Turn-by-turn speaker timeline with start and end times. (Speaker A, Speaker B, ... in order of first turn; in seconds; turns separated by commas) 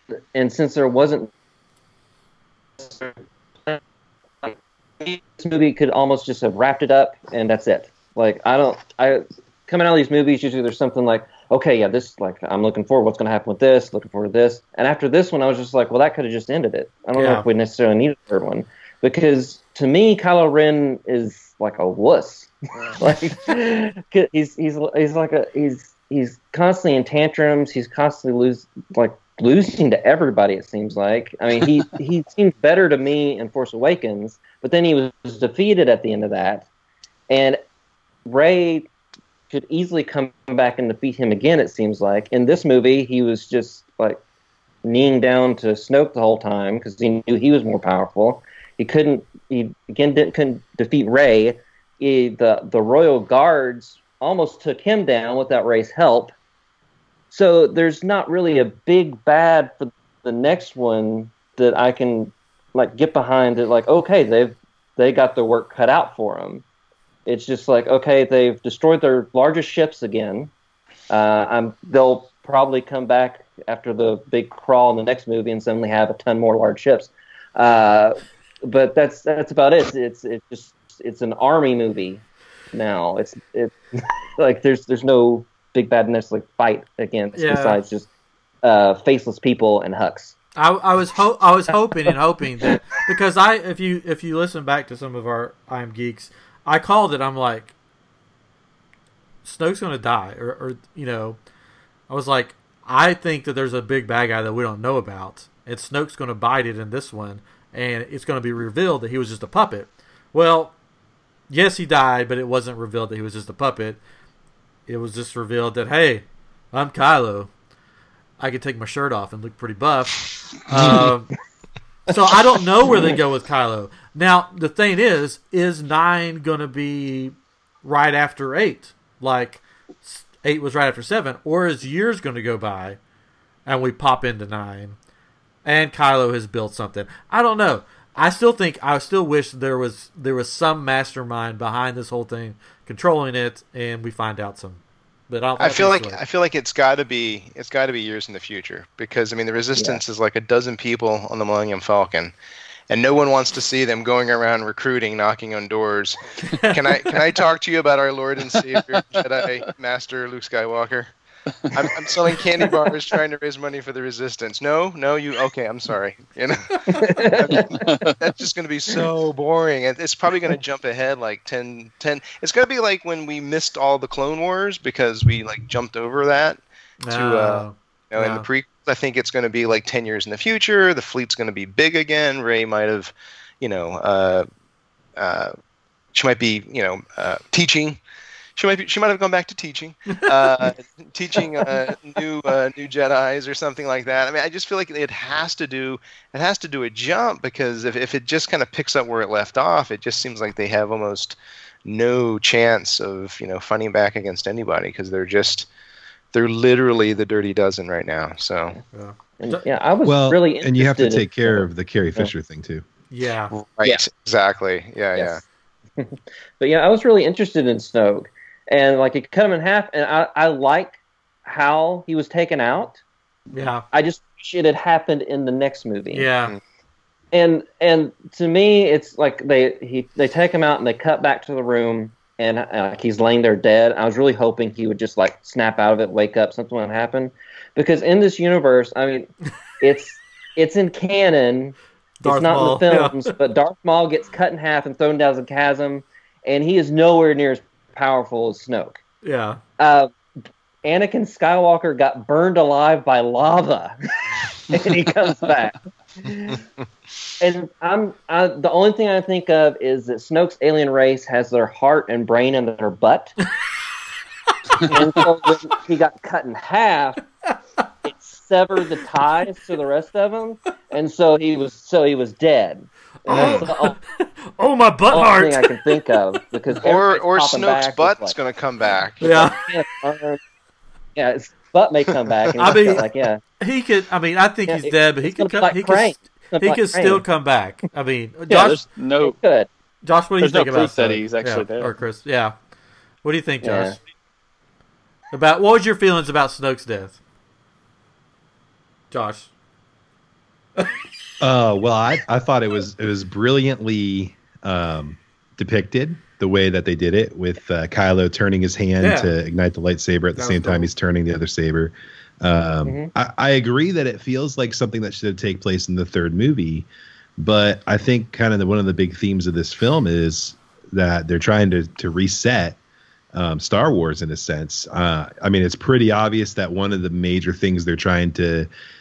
Speaker A: 0.3-1.3, Speaker A: 2.8-3.8, Speaker A: 4.4-36.6, Speaker B: 17.1-17.4, Speaker A: 37.3-37.6, Speaker A: 38.2-38.9, Speaker A: 39.5-44.2, Speaker A: 44.8-56.3, Speaker A: 57.3-66.6, Speaker A: 67.2-70.5, Speaker A: 71.1-82.2, Speaker A: 82.7-88.0, Speaker B: 87.3-87.8, Speaker A: 88.6-90.3, Speaker B: 90.6-97.7, Speaker B: 99.4-101.4, Speaker B: 102.1-110.7, Speaker B: 111.5-114.0, Speaker B: 114.9-117.5, Speaker B: 118.4-121.3, Speaker B: 122.1-133.0, Speaker B: 133.7-134.9, Speaker B: 135.6-146.2, Speaker C: 145.6-152.3, Speaker C: 152.9-161.1, Speaker B: 156.4-157.2, Speaker D: 158.6-159.2, Speaker C: 161.7-176.6, Speaker A: 166.9-168.0, Speaker D: 167.6-168.2, Speaker B: 177.0-178.4, Speaker C: 177.1-184.4, Speaker C: 185.2-185.5, Speaker C: 186.1-188.0, Speaker C: 188.6-205.7, Speaker B: 190.1-190.7, Speaker C: 206.3-208.8, Speaker B: 208.9-209.6, Speaker A: 209.4-212.3, Speaker E: 210.0-212.8, Speaker B: 213.1-213.5, Speaker C: 213.5-215.4, Speaker A: 215.2-215.4, Speaker A: 216.0-223.0, Speaker B: 223.5-223.8, Speaker A: 223.9-226.3, Speaker B: 226.1-226.6, Speaker A: 227.3-249.0, Speaker B: 242.2-243.3, Speaker B: 249.2-249.6, Speaker A: 249.8-250.2, Speaker A: 250.8-253.9, Speaker A: 254.7-256.6, Speaker A: 257.4-263.3, Speaker B: 264.5-265.0, Speaker A: 264.8-267.2, Speaker B: 267.5-267.9, Speaker A: 268.0-273.9, Speaker B: 273.2-276.1, Speaker A: 275.1-278.3, Speaker C: 276.8-279.2, Speaker B: 279.2-279.7, Speaker A: 279.2-280.4, Speaker A: 281.1-283.4, Speaker B: 282.6-283.0, Speaker B: 283.6-288.8, Speaker A: 284.7-287.2, Speaker D: 288.5-289.4, Speaker A: 289.2-289.7, Speaker B: 290.0-292.5, Speaker D: 290.4-291.9, Speaker B: 293.2-294.0, Speaker A: 293.6-293.9, Speaker B: 295.3-297.2, Speaker B: 299.1-299.5, Speaker E: 301.4-316.9, Speaker B: 309.0-309.4, Speaker B: 310.4-310.9, Speaker A: 312.8-313.1, Speaker E: 317.4-322.8, Speaker E: 323.3-328.7